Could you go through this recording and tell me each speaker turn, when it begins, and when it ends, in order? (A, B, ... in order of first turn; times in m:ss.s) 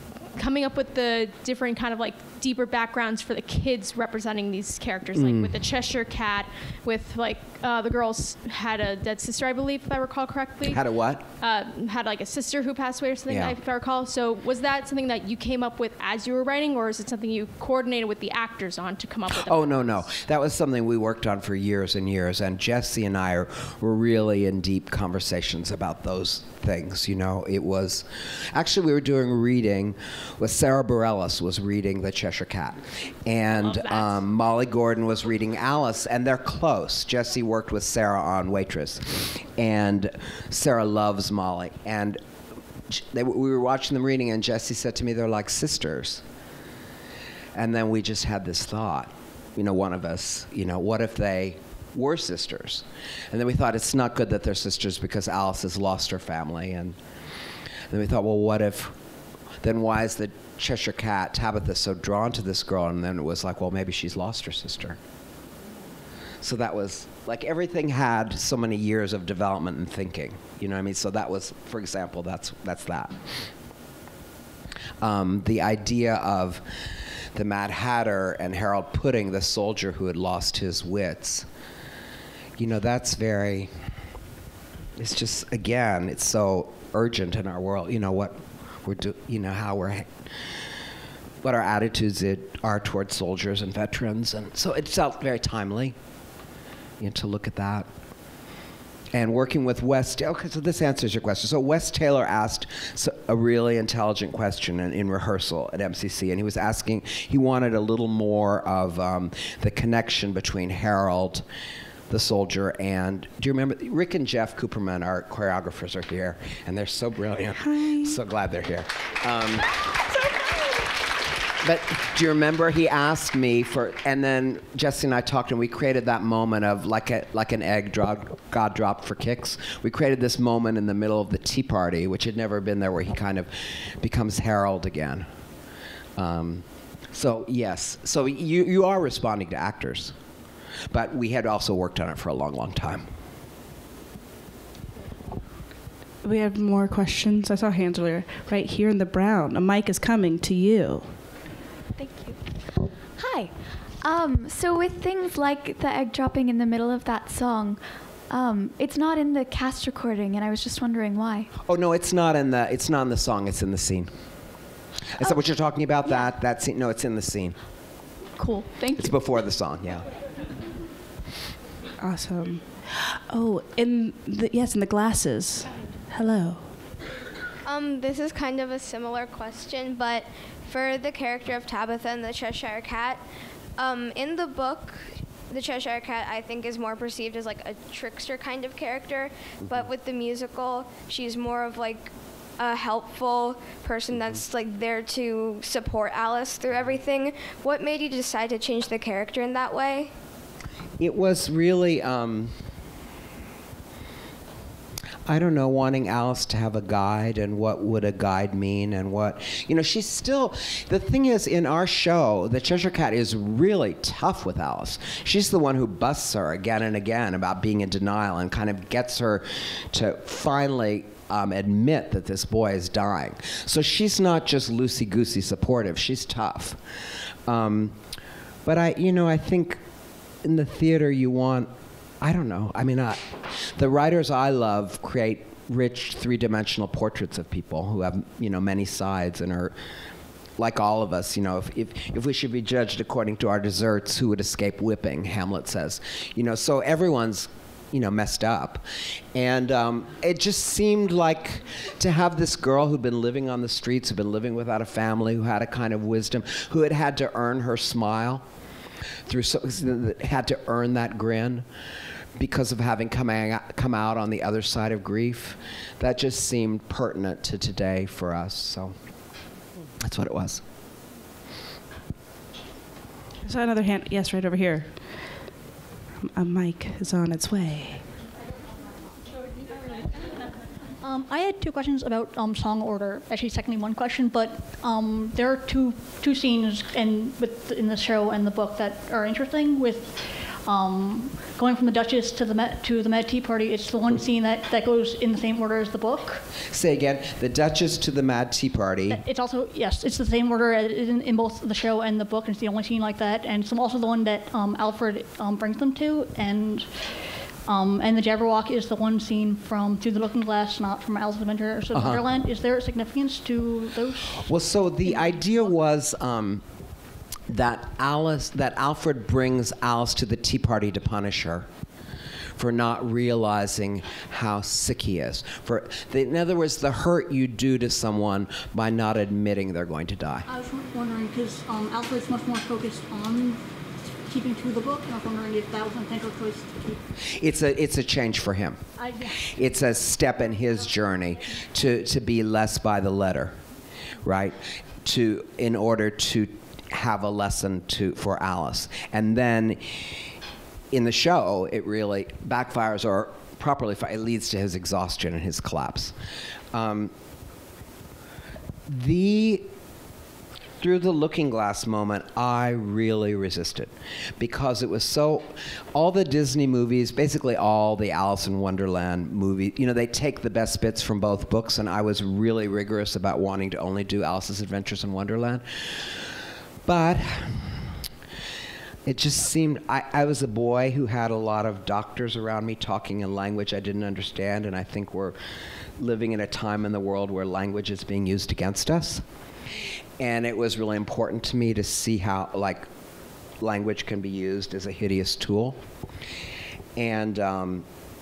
0:00.3-0:10.8 A
0:05.1-0:05.6 B
0:10.6-0:11.2 B
0:11.4-0:20.0 A
0:13.3-0:13.6 B
0:19.3-0:42.2 B
0:33.7-0:34.2 A
0:42.9-0:46.2 B
0:47.5-0:57.0 B
0:57.9-0:59.0 B
0:59.6-1:05.0 B
1:06.4-1:13.2 B
1:15.0-1:16.6 B
1:17.3-1:21.5 B
1:22.6-1:23.7 B
1:25.0-1:30.1 B
1:31.4-1:36.0 B
1:37.0-1:37.9 B
1:39.1-1:51.4 B
1:52.1-1:59.8 B
1:57.6-1:58.2 C
2:01.6-2:15.2 B
2:16.2-2:20.1 B
2:20.9-2:23.0 B
2:26.2-2:31.1 C
2:32.0-2:32.4 D
2:33.2-2:41.5 D
2:41.6-2:44.1 B
2:45.2-2:47.6 B
2:48.4-2:49.1 D
2:48.9-2:50.0 B
2:52.0-2:56.7 C
2:57.6-3:03.2 E
3:03.8-3:20.1 E
3:21.0-3:22.6 B
3:25.2-3:46.8 B
3:47.4-3:48.0 B
3:48.6-3:49.8 B
3:50.4-3:51.7 B
3:52.2-3:59.7 B
4:00.6-4:18.4 B
4:19.2-4:21.6 B
4:22.4-4:29.0 B
4:30.0-4:30.6 B
4:33.4-4:35.1 C
4:36.2-4:38.0 C
4:41.0-4:56.4 F
4:56.7-4:59.2 B
4:59.1-5:14.4 F
5:11.9-5:12.2 B
5:14.4-5:16.6 B
5:17.5-5:21.7 B
5:22.6-5:30.4 B
5:30.4-5:33.6 F
5:34.1-5:37.0 F
5:37.2-5:38.8 B
5:39.0-5:39.4 F
5:39.4-5:43.6 B
5:44.2-5:50.0 B
5:50.9-5:56.1 B
5:56.7-5:57.1 B
5:58.9-5:59.6 B
6:00.8-6:15.6 B
6:16.8-6:17.8 B
6:19.0-6:25.4 B
6:26.0-6:29.2 B
6:30.2-6:32.8 B
6:33.6-6:35.8 B
6:37.0-6:37.8 B